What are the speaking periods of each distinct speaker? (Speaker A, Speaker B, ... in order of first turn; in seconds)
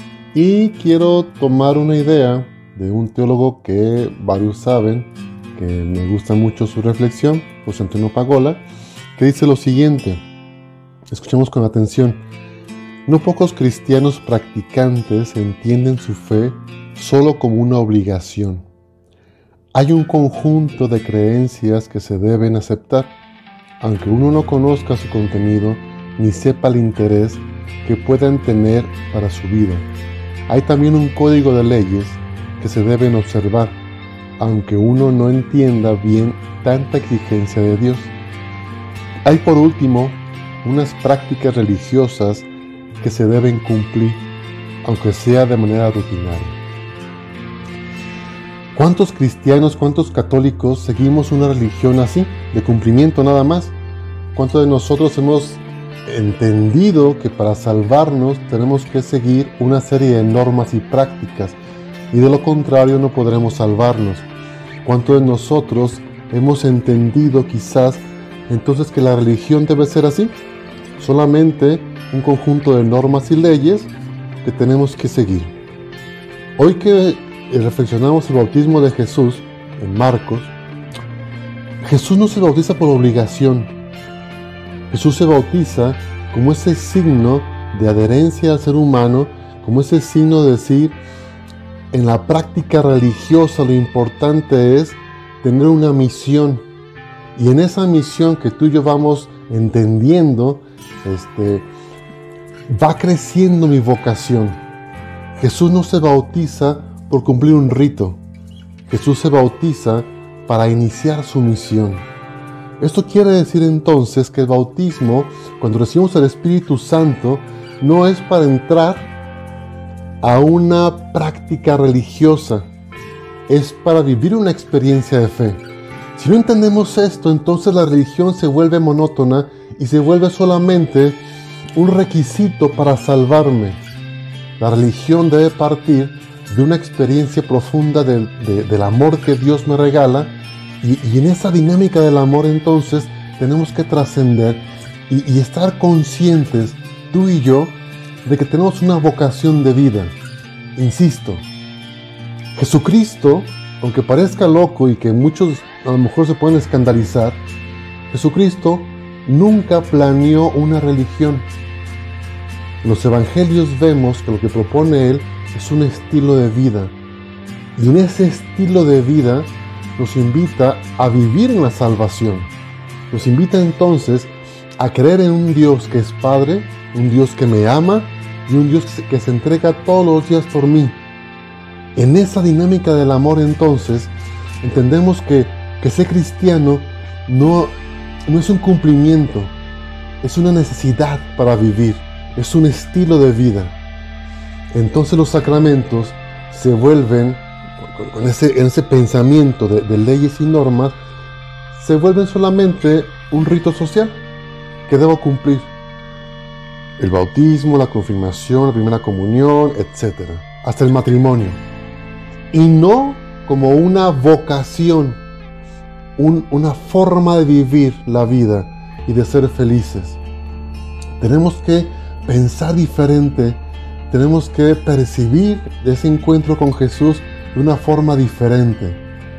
Speaker A: 0.3-8.6, 9.2-10.2, 11.1-12.2, 13.1-18.6, 19.7-23.2, 23.8-29.9, 30.5-33.8, 34.4-38.1, 39.2-42.5, 43.0-44.3, 44.8-46.6, 48.7-53.8, 54.3-61.6, 62.1-64.3, 64.8-70.4, 71.0-73.9, 74.4-75.5, 76.6-80.5, 81.8-83.7, 84.9-91.0, 91.9-96.6, 97.3-101.7, 102.7-104.6, 105.3-108.2, 108.9-112.1, 112.8-119.1, 120.2-122.7, 123.5-125.6, 126.1-131.2, 131.7-133.8, 134.6-150.2, 150.8-151.5, 152.6-157.4, 158.1-161.5, 162.8-166.9, 167.8-172.5, 173.1-181.0, 181.9-189.6, 190.2-193.8, 194.7-200.9, 201.7-204.2, 204.8-205.7, 207.0-211.6, 212.5-215.2, 216.2-220.2, 221.2-229.0